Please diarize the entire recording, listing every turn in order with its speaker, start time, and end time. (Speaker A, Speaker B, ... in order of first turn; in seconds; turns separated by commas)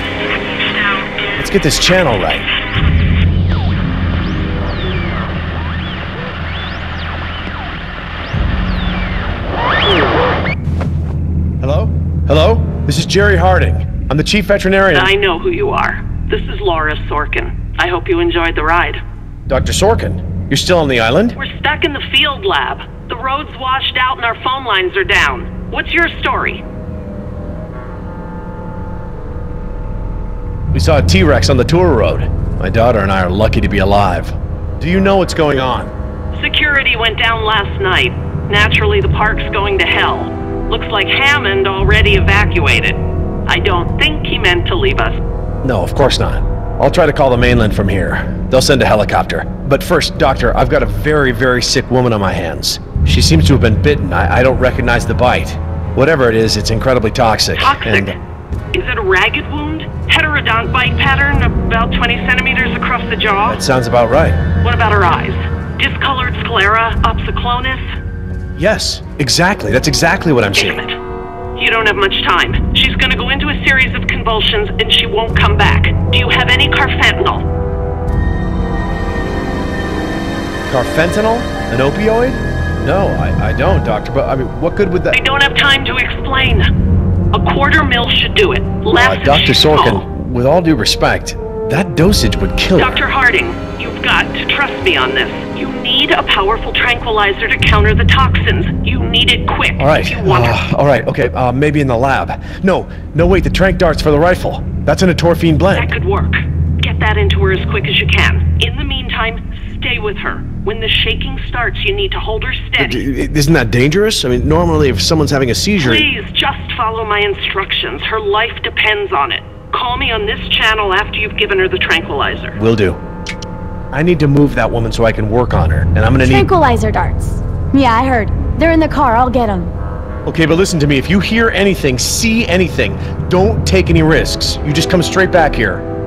Speaker A: 1.4-2.5, Speaker A: 11.6-15.1, Speaker B: 14.9-19.0, Speaker A: 19.5-21.4, Speaker B: 21.4-26.6, Speaker A: 30.7-35.9, Speaker B: 36.3-45.2, Speaker A: 45.6-58.1, Speaker B: 57.5-58.2, Speaker B: 58.7-63.6, Speaker A: 63.5-64.4, Speaker B: 64.6-67.8, Speaker A: 68.6-70.8, Speaker B: 70.5-71.0, Speaker B: 71.5-77.4, Speaker A: 80.7-85.2, Speaker B: 85.1-86.7, Speaker B: 87.3-90.0, Speaker A: 89.0-93.0, Speaker B: 92.7-100.6, Speaker A: 99.8-105.9, Speaker B: 105.7-113.0, Speaker A: 112.8-116.1, Speaker B: 115.8-122.5, Speaker A: 122.5-123.0, Speaker A: 123.9-126.5, Speaker C: 126.2-129.7, Speaker A: 130.2-135.8